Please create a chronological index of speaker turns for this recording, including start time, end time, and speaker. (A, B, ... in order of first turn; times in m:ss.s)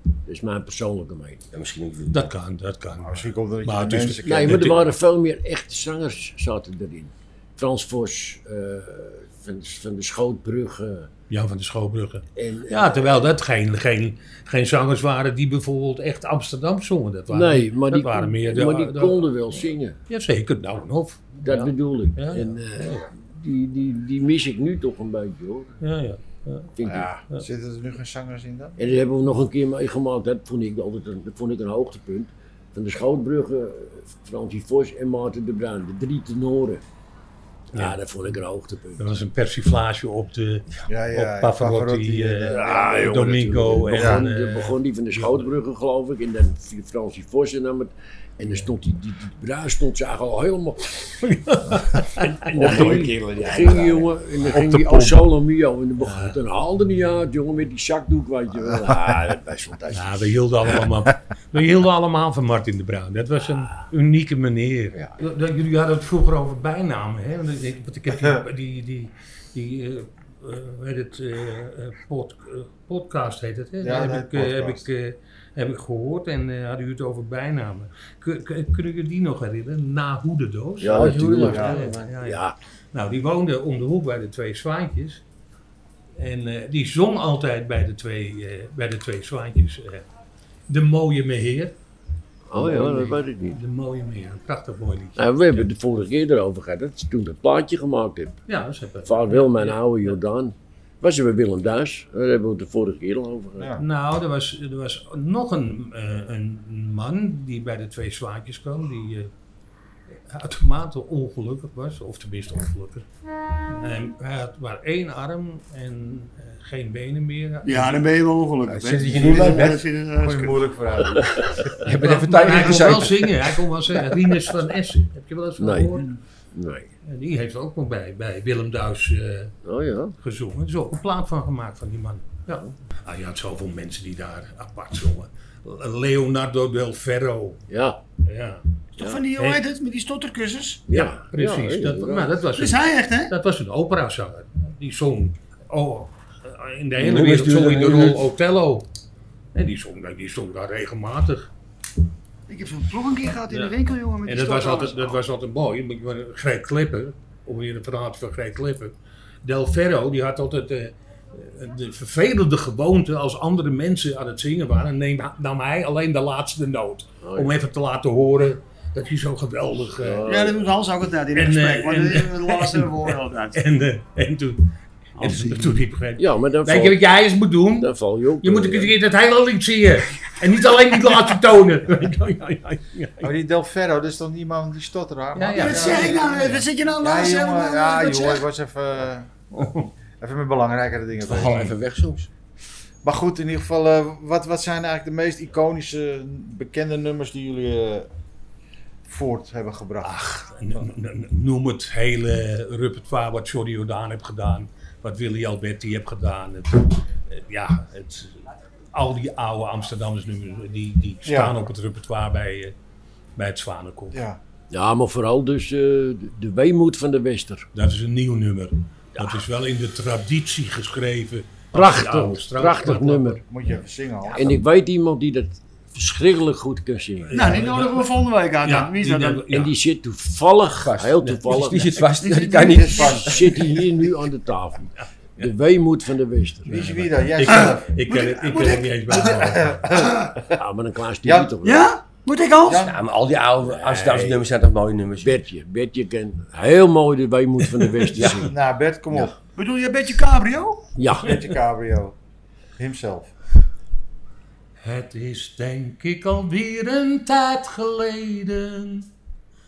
0:00.3-0:01.5 A
0:01.5-0:02.3 B
0:02.1-0:04.8 C
0:03.0-0:04.8 D
0:04.2-0:11.1 A
0:11.3-0:19.3 C
0:12.4-0:13.3 A
0:17.3-0:20.0 A
0:20.1-0:23.1 C
0:21.4-0:25.8 A
0:25.8-0:26.7 C
0:26.8-0:27.1 A
0:26.8-0:28.8 D
0:28.8-0:36.8 A
0:37.7-0:39.1 A
0:39.0-0:45.5 C
0:40.9-0:43.1 D
0:42.5-0:51.2 A
0:44.0-0:44.2 D
0:51.2-0:53.1 C
0:52.5-1:00.4 A
0:52.6-0:54.0 B
0:53.6-0:53.9 D
0:54.5-0:55.2 D
0:56.0-0:56.3 C
0:59.9-1:22.4 C
1:13.8-1:14.9 D
1:20.8-1:22.6 A
1:20.9-1:22.1 B
1:21.5-1:21.8 D
1:22.9-1:25.2 C
1:26.2-1:30.1 C
1:30.7-1:31.8 C
1:32.5-1:33.6 A
1:32.6-1:35.7 C
1:35.2-1:38.4 A
1:38.5-1:39.9 C
1:39.0-1:43.7 A
1:43.6-1:43.8 D
1:43.8-1:49.3 C
1:50.3-1:53.1 C
1:53.7-1:58.0 C
1:57.6-2:00.7 E
1:58.7-1:59.9 B
2:00.2-2:01.7 D
2:01.8-2:03.5 B
2:01.8-2:06.1 C
2:05.6-2:06.0 A
2:06.5-2:06.9 A
2:07.0-2:09.6 C
2:09.6-2:10.2 A
2:10.2-2:17.6 C
2:17.7-2:18.0 A
2:18.3-2:18.6 C
2:19.0-2:20.8 E
2:20.9-2:22.3 A
2:21.0-2:28.9 C
2:22.6-2:23.3 E
2:27.0-2:28.2 B
2:29.6-2:31.5 C
2:32.5-2:35.2 E
2:34.2-2:50.2 C
2:47.2-2:47.5 A
2:49.9-2:50.7 A
2:50.3-2:53.6 E
2:51.3-3:03.3 C
2:55.2-2:55.8 E
2:56.2-2:57.0 A
2:57.8-2:58.9 A
3:03.2-3:09.3 D
3:05.4-3:06.2 C
3:05.6-3:08.4 E
3:09.5-3:09.9 C
3:10.2-3:11.7 D
3:11.2-3:12.3 B
3:11.4-3:11.7 C
3:13.0-3:18.1 D
3:19.1-3:20.2 D
3:20.0-3:32.7 C
3:31.3-3:31.6 D
3:33.4-3:34.2 C
3:34.1-3:34.4 D
3:34.7-3:37.7 A
3:37.8-3:43.4 C
3:39.2-3:39.4 A
3:41.7-3:43.4 A
3:43.5-3:44.6 D
3:44.4-3:47.5 A
3:47.3-3:48.1 C
3:47.3-3:49.4 E
3:48.6-3:49.7 C
3:49.5-3:52.0 A
3:50.8-3:53.6 B
3:52.2-3:53.6 E
3:52.7-3:57.0 A
3:52.8-3:53.3 D
3:56.7-3:58.0 D
3:56.7-3:59.8 C
3:57.5-3:59.4 E
3:59.1-4:00.6 D
3:59.9-4:00.4 E
4:00.6-4:01.9 A
4:01.2-4:01.6 D
4:01.6-4:02.9 E
4:02.6-4:03.0 D
4:02.8-4:05.4 B
4:03.6-4:04.4 A
4:05.2-4:08.5 A
4:08.1-4:08.5 B
4:08.4-4:09.4 D
4:09.6-4:10.9 E
4:11.0-4:11.4 A
4:11.2-4:12.2 D
4:12.8-4:13.3 D
4:14.8-4:19.1 C